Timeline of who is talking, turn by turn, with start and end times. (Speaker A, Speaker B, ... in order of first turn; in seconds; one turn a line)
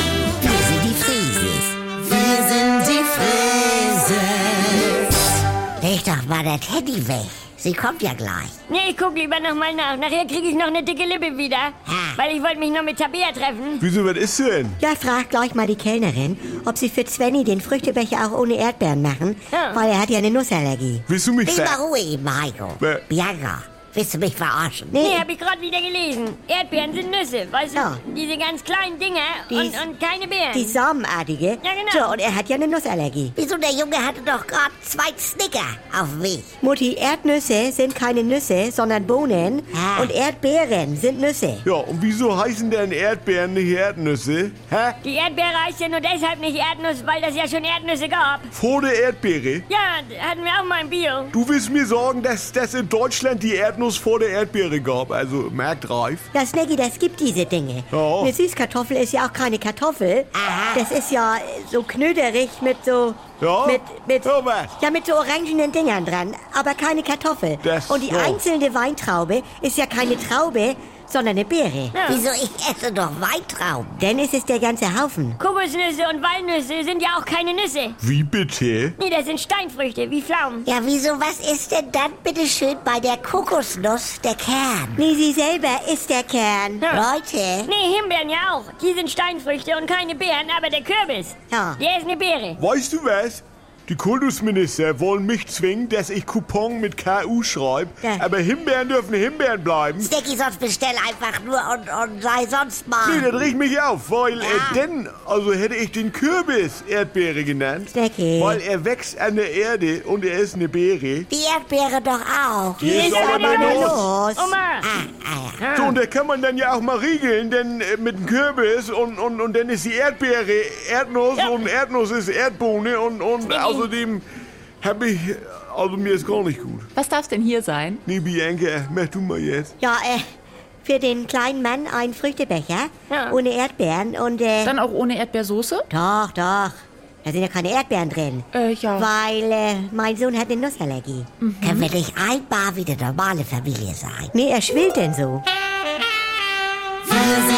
Speaker A: 0.4-5.0
Speaker A: 5.8-8.6
Speaker B: 8.7-13.8
Speaker A: 11.8-12.2
Speaker C: 13.8-14.8
Speaker D: 14.8-21.0
Speaker B: 19.5-19.8
Speaker C: 21.1-21.8
Speaker A: 21.4-25.1
Speaker C: 22.8-23.1
Speaker D: 24.9-25.2
Speaker B: 25.0-30.8
Speaker D: 27.7-28.0
Speaker D: 29.5-29.9
Speaker D: 30.5-33.3
Speaker B: 31.6-32.1
Speaker A: 33.4-36.5
Speaker D: 36.6-41.6
Speaker A: 39.7-40.1
Speaker C: 41.6-45.0
Speaker B: 45.0-48.5
Speaker C: 48.5-49.6
Speaker B: 49.7-51.3
Speaker C: 51.3-56.3
Speaker D: 56.3-72.0
Speaker C: 57.9-58.3
Speaker A: 60.4-60.8
Speaker C: 63.4-64.8
Speaker C: 67.6-68.4
Speaker B: 71.9-72.2
Speaker A: 72.0-74.0
Speaker D: 74.0-75.4
Speaker B: 75.4-78.0
Speaker C: 78.0-78.9
Speaker B: 79.0-80.7
Speaker A: 80.7-85.0
Speaker D: 85.0-86.8
Speaker A: 86.9-87.7
Speaker B: 87.7-92.6
Speaker D: 91.5-91.8
Speaker C: 92.6-100.1
Speaker A: 100.0-103.3
Speaker C: 103.0-111.3
Speaker A: 104.4-104.8
Speaker D: 107.9-108.6
Speaker A: 111.3-113.0
Speaker D: 112.8-114.5
Speaker C: 112.8-114.1
Speaker B: 113.0-114.8
Speaker A: 114.8-115.7
Speaker B: 115.6-116.0
Speaker C: 115.7-124.2
Speaker B: 123.4-123.9
Speaker C: 124.8-126.9
Speaker E: 126.9-128.0
Speaker C: 128.1-129.7
Speaker D: 129.8-130.2
Speaker D: 130.8-134.7
Speaker B: 133.1-133.4
Speaker E: 134.6-135.9
Speaker D: 135.9-136.7
Speaker D: 137.2-141.3
Speaker E: 138.5-139.1
Speaker E: 141.4-141.9
Speaker A: 141.6-144.3
Speaker D: 144.3-145.4